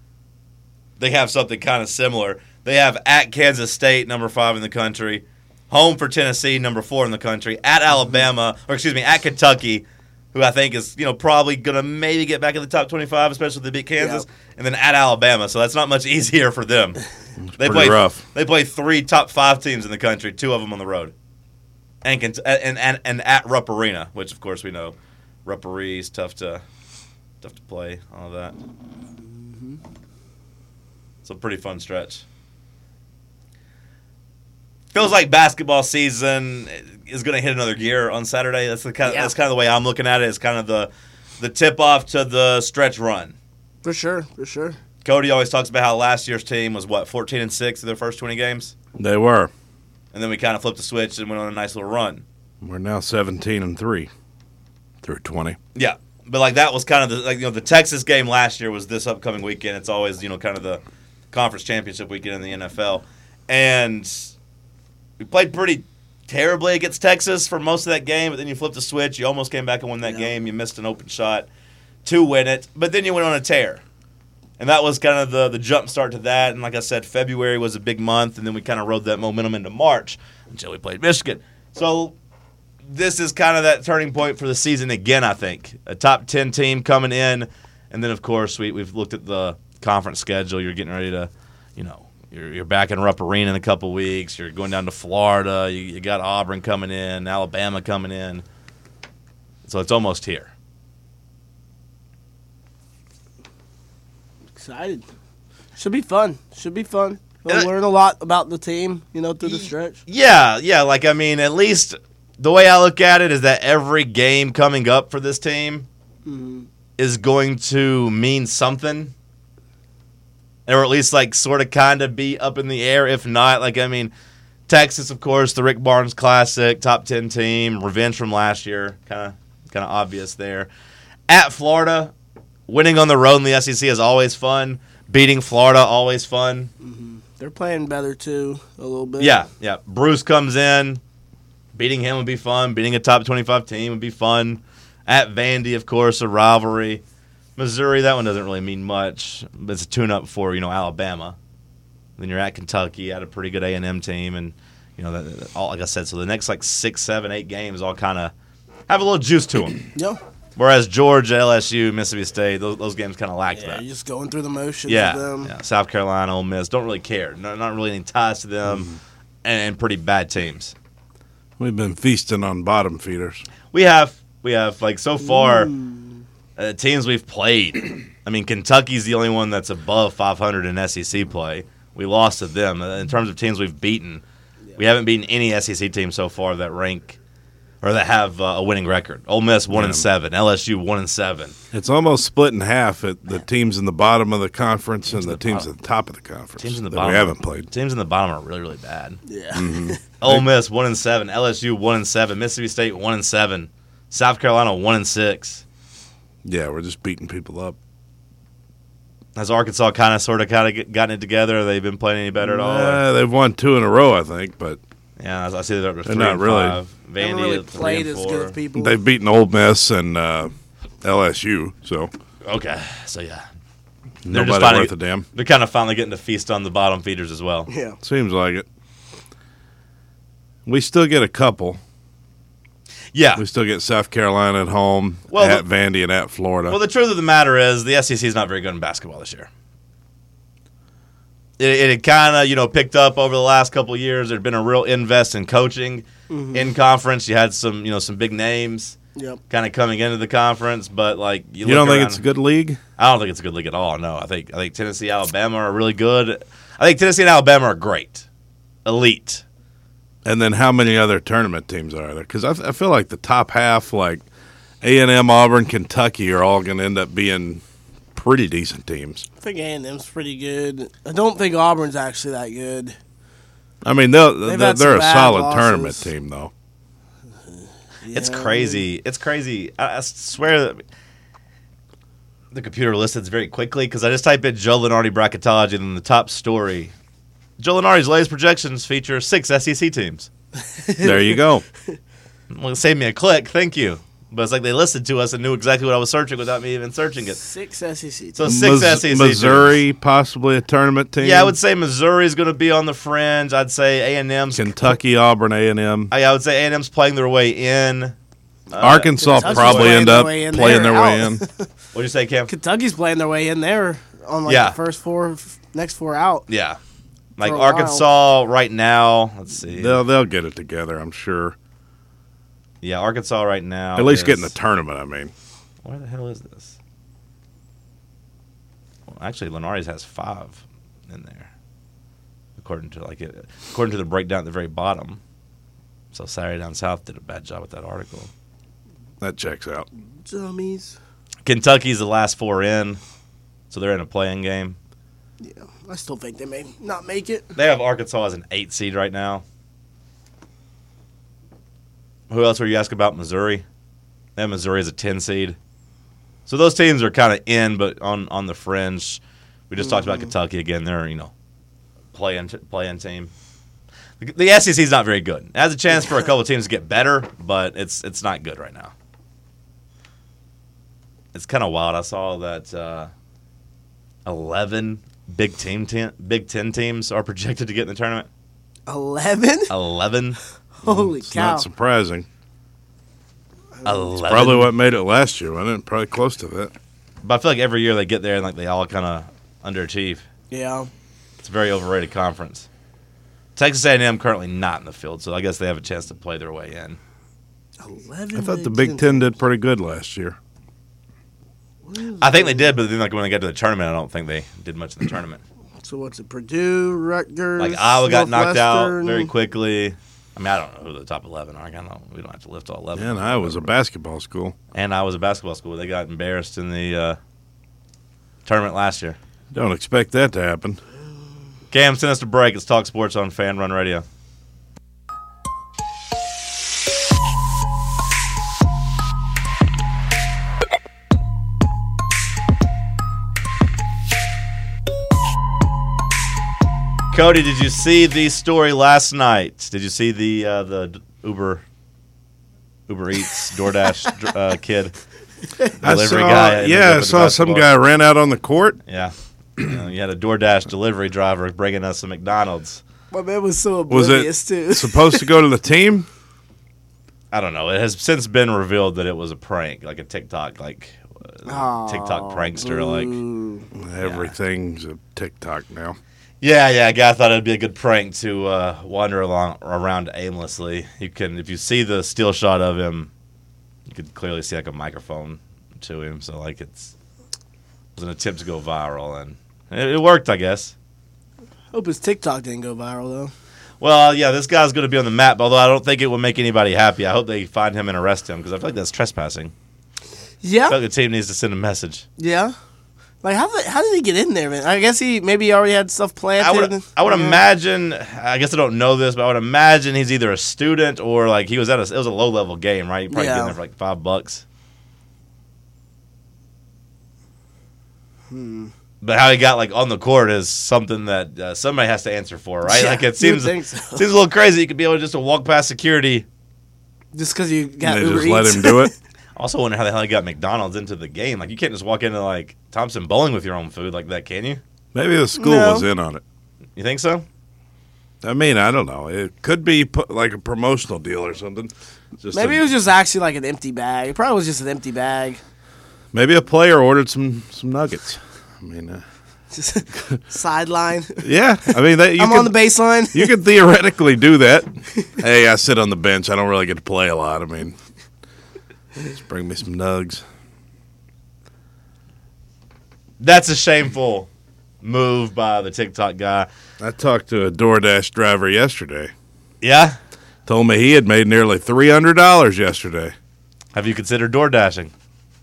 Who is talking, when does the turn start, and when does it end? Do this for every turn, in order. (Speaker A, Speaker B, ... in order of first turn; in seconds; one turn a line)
Speaker A: 1.0-17.0
Speaker B: 14.0-14.2
Speaker C: 17.4-18.2
Speaker A: 17.6-21.1
Speaker A: 22.0-26.6
Speaker A: 27.4-28.5
Speaker B: 29.2-29.8
Speaker A: 31.2-32.2
Speaker A: 34.9-43.3
Speaker B: 43.8-44.8
Speaker A: 45.0-48.7
Speaker C: 48.9-49.5
Speaker A: 50.1-52.2
Speaker C: 52.6-54.1
Speaker C: 55.0-55.6
Speaker A: 55.7-60.8
Speaker A: 61.3-64.3
Speaker A: 65.2-71.5
Speaker A: 72.0-73.8
Speaker A: 74.6-82.1
Speaker A: 82.9-98.4
Speaker A: 99.6-100.5
Speaker B: 104.5-105.0
Speaker B: 105.8-110.0
Speaker A: 109.4-115.9
Speaker B: 116.2-116.7
Speaker A: 117.0-119.1
Speaker A: 120.7-124.1
Speaker A: 124.7-130.7
Speaker A: 131.3-132.1
Speaker A: 132.7-136.7
Speaker B: 136.8-139.3
Speaker A: 139.2-141.0
Speaker A: 141.7-147.0
Speaker A: 147.6-151.3
Speaker A: 152.2-158.3
Speaker A: 158.9-159.8
Speaker A: 160.6-163.8
Speaker B: 163.6-165.5
Speaker A: 164.9-170.7
Speaker C: 171.6-173.4
Speaker A: 173.7-175.7
Speaker B: 175.2-176.2
Speaker A: 176.6-184.2
Speaker A: 184.8-187.2
Speaker A: 187.8-191.5
Speaker C: 189.7-190.1
Speaker C: 191.7-197.7
Speaker A: 195.1-195.7
Speaker A: 196.6-199.2
Speaker B: 199.3-200.0
Speaker C: 199.5-200.4
Speaker A: 200.2-205.6
Speaker C: 206.4-207.8
Speaker A: 209.3-213.0
Speaker C: 212.4-214.8
Speaker A: 215.2-218.6
Speaker C: 216.0-216.8
Speaker B: 217.2-218.9
Speaker C: 218.7-222.1
Speaker A: 222.4-223.4
Speaker C: 224.2-225.2
Speaker A: 224.3-227.7
Speaker B: 227.7-228.0
Speaker C: 228.0-228.7
Speaker C: 230.7-231.8
Speaker A: 233.1-233.4
Speaker C: 233.4-236.8
Speaker A: 235.3-235.6
Speaker A: 236.7-239.5
Speaker A: 241.6-249.0
Speaker B: 246.3-246.7
Speaker A: 249.5-252.2
Speaker C: 251.6-252.8
Speaker A: 253.0-258.2
Speaker A: 258.8-259.4
Speaker C: 260.2-264.2
Speaker C: 264.8-267.6
Speaker C: 268.1-269.2
Speaker B: 269.4-272.9
Speaker C: 273.8-276.5
Speaker B: 274.4-276.1
Speaker B: 277.5-278.8
Speaker A: 278.1-280.8
Speaker A: 282.5-286.9
Speaker A: 287.6-290.3
Speaker B: 290.6-291.4
Speaker C: 291.0-291.6
Speaker A: 292.5-297.4
Speaker B: 297.4-298.4
Speaker A: 298.4-299.8
Speaker C: 298.4-301.6
Speaker A: 301.2-304.9
Speaker C: 304.5-306.1
Speaker A: 306.1-308.1
Speaker A: 308.7-310.1
Speaker C: 308.8-311.4
Speaker B: 309.2-311.6
Speaker A: 311.9-312.5
Speaker B: 312.5-316.4
Speaker A: 314.4-314.8
Speaker A: 316.5-316.8
Speaker A: 317.4-320.0
Speaker B: 317.4-318.0
Speaker C: 319.7-321.6
Speaker A: 322.8-324.5
Speaker C: 323.9-325.3
Speaker A: 325.8-326.8
Speaker A: 329.1-331.5
Speaker A: 332.6-335.2
Speaker A: 336.1-338.3
Speaker C: 339.2-339.9
Speaker B: 340.2-340.9
Speaker A: 341.4-343.0
Speaker A: 343.7-344.8
Speaker B: 345.4-347.5
Speaker A: 347.5-349.4
Speaker A: 352.3-353.6
Speaker A: 354.4-355.6
Speaker A: 356.5-361.3
Speaker B: 359.8-360.3
Speaker A: 362.1-363.3
Speaker A: 364.2-368.9
Speaker A: 371.3-373.1
Speaker A: 374.2-378.3
Speaker B: 378.9-379.7
Speaker A: 379.7-380.4
Speaker B: 380.8-381.7
Speaker C: 380.8-382.3
Speaker B: 383.8-384.1
Speaker A: 383.8-384.7
Speaker C: 384.2-386.7
Speaker A: 387.2-390.2
Speaker B: 390.5-390.9
Speaker A: 391.4-392.7
Speaker A: 393.6-397.0
Speaker B: 397.8-399.3
Speaker C: 398.3-400.4
Speaker B: 401.8-402.8
Speaker A: 402.2-405.4
Speaker B: 405.8-409.3
Speaker A: 407.6-413.7
Speaker C: 412.9-414.6
Speaker A: 414.7-417.2
Speaker A: 418.4-419.2
Speaker C: 419.5-420.8
Speaker A: 421.7-424.0
Speaker A: 437.1-441.6
Speaker A: 442.9-444.9
Speaker A: 445.8-447.7
Speaker C: 445.8-448.8
Speaker A: 448.9-452.8
Speaker B: 453.1-455.3
Speaker C: 453.9-456.1
Speaker A: 457.3-463.2
Speaker B: 461.5-463.6
Speaker C: 463.7-466.0
Speaker A: 464.0-464.3
Speaker A: 466.4-473.1
Speaker A: 473.9-476.9
Speaker A: 477.9-480.7
Speaker B: 481.7-483.3
Speaker A: 483.8-489.5
Speaker B: 490.4-490.8
Speaker A: 490.7-492.0
Speaker B: 492.2-492.5
Speaker B: 493.2-497.4
Speaker A: 496.4-504.4
Speaker B: 503.1-503.5
Speaker B: 508.3-508.7
Speaker A: 509.0-516.2
Speaker B: 512.6-514.0
Speaker B: 517.1-518.9
Speaker C: 517.8-518.9
Speaker A: 519.4-524.6
Speaker C: 524.9-526.2
Speaker B: 525.4-525.9
Speaker A: 526.8-527.2
Speaker C: 528.2-532.6
Speaker B: 532.3-535.4
Speaker C: 536.1-539.0
Speaker B: 539.5-541.2
Speaker C: 541.2-542.5
Speaker B: 542.2-543.3
Speaker C: 543.1-547.8
Speaker C: 549.0-550.2
Speaker A: 553.2-554.3
Speaker A: 554.8-556.5
Speaker C: 556.8-559.1
Speaker A: 559.6-560.0
Speaker C: 560.5-563.1
Speaker A: 563.7-564.9